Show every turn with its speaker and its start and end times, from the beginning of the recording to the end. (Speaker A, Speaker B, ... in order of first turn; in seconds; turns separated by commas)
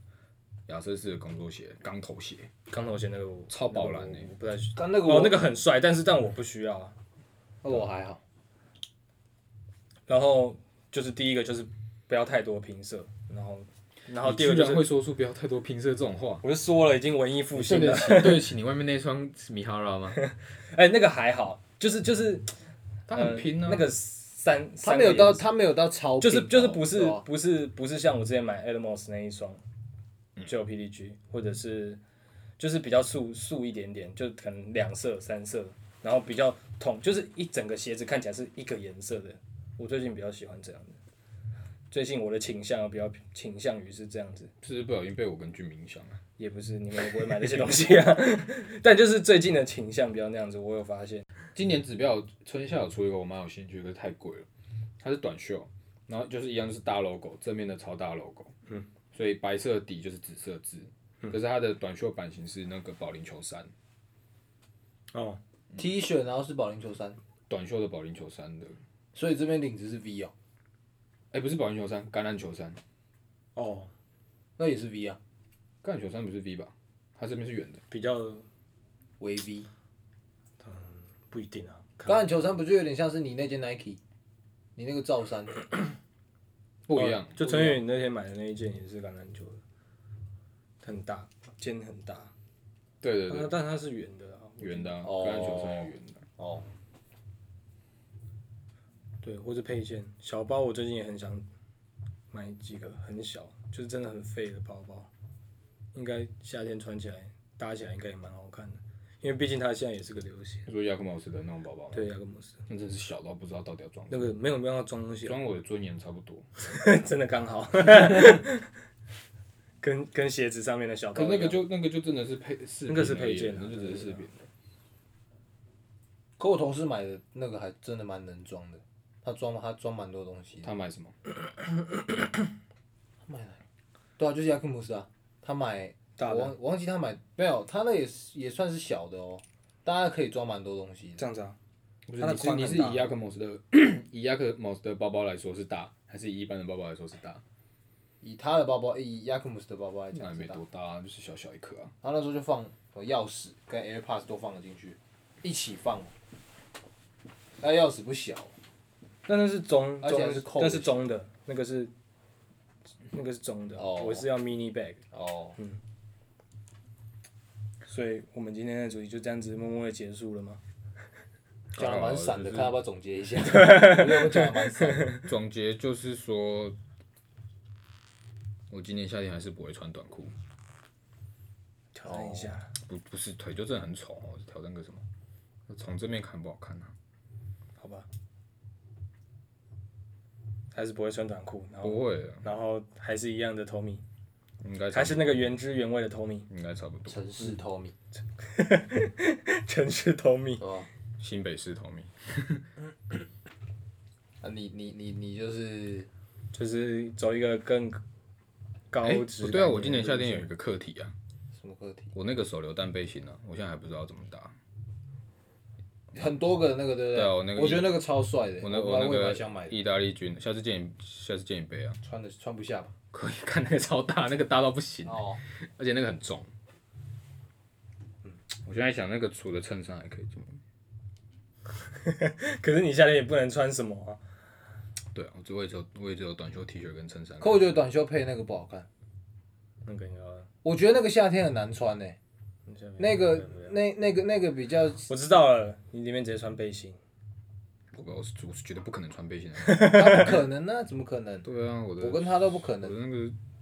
Speaker A: 0.7-2.5, Speaker B: 2.7-6.9, Speaker A: 3.5-4.3, Speaker C: 4.8-5.4, Speaker C: 7.6-8.2, Speaker B: 10.1-14.9, Speaker A: 14.2-16.4, Speaker B: 16.4-18.5, Speaker A: 17.5-20.2, Speaker B: 20.2-22.5, Speaker A: 23.1-23.9, Speaker B: 23.1-25.5, Speaker C: 24.8-27.2, Speaker B: 26.2-29.6, Speaker B: 30.4-32.0, Speaker B: 32.6-41.0, Speaker B: 41.9-44.5, Speaker A: 44.6-46.2, Speaker B: 46.4-51.2, Speaker A: 51.5-54.5, Speaker A: 55.0-58.5, Speaker A: 59.1-63.7, Speaker B: 65.1-65.4, Speaker C: 65.8-67.2, Speaker A: 67.5-68.8, Speaker C: 69.1-70.3, Speaker A: 71.3-72.8, Speaker B: 73.5-73.9, Speaker C: 74.6-75.2, Speaker A: 75.8-77.8, Speaker B: 77.9-78.4, Speaker C: 79.2-79.7, Speaker B: 80.6-82.2, Speaker C: 82.0-84.0, Speaker C: 84.8-85.6, Speaker A: 86.9-87.4, Speaker B: 86.9-89.6, Speaker C: 87.4-87.7, Speaker B: 90.8-92.3, Speaker A: 93.0-93.5, Speaker B: 93.3-95.0, Speaker A: 94.6-96.2, Speaker C: 95.0-96.7, Speaker B: 99.2-101.4, Speaker B: 102.3-105.1, Speaker B: 105.9-110.7, Speaker A: 110.7-112.1, Speaker B: 111.9-112.6, Speaker A: 112.7-114.3, Speaker B: 114.1-115.4, Speaker A: 115.2-116.5, Speaker B: 116.6-118.7, Speaker B: 119.8-121.6, Speaker A: 121.1-124.5, Speaker B: 122.9-124.2, Speaker C: 126.4-130.7, Speaker A: 130.6-131.1, Speaker C: 133.2-133.6, Speaker C: 134.2-141.2, Speaker B: 136.2-136.5, Speaker B: 141.2-141.6, Speaker A: 142.1-147.4, Speaker B: 142.2-143.1, Speaker C: 148.2-150.6, Speaker A: 150.1-151.9, Speaker C: 152.0-156.1, Speaker C: 157.6-158.5, Speaker B: 159.3-161.9, Speaker C: 160.0-160.9, Speaker B: 163.1-165.0, Speaker C: 163.8-164.2, Speaker C: 165.1-165.6, Speaker B: 167.9-170.6, Speaker A: 171.7-172.7, Speaker C: 171.8-175.2, Speaker B: 173.7-174.3, Speaker A: 175.1-176.8, Speaker A: 178.7-180.3, Speaker B: 181.9-182.7, Speaker C: 182.0-182.6, Speaker A: 182.8-185.0, Speaker A: 185.7-186.9, Speaker B: 187.8-188.1, Speaker B: 190.7-194.0, Speaker A: 191.8-192.4, Speaker A: 194.6-195.5, Speaker B: 194.9-196.5, Speaker A: 196.5-197.2, Speaker C: 197.1-197.9, Speaker B: 198.4-200.6, Speaker C: 200.6-200.9, Speaker A: 201.2-202.6, Speaker C: 204.4-206.1, Speaker B: 206.5-208.0, Speaker B: 208.9-210.5, Speaker A: 209.0-211.1, Speaker C: 211.5-212.1, Speaker A: 212.1-214.5, Speaker C: 216.1-219.8, Speaker A: 217.1-218.0, Speaker A: 218.6-222.0, Speaker C: 222.0-222.9, Speaker A: 223.1-226.5, Speaker C: 225.0-225.4, Speaker A: 228.6-230.6, Speaker B: 232.0-234.2, Speaker A: 235.1-237.7, Speaker C: 237.4-238.9, Speaker B: 239.8-240.5, Speaker C: 240.6-242.2, Speaker B: 242.7-243.7, Speaker C: 243.0-245.1, Speaker B: 245.1-247.0, Speaker A: 247.9-250.2, Speaker C: 249.8-251.5, Speaker A: 251.4-253.3, Speaker C: 252.0-252.9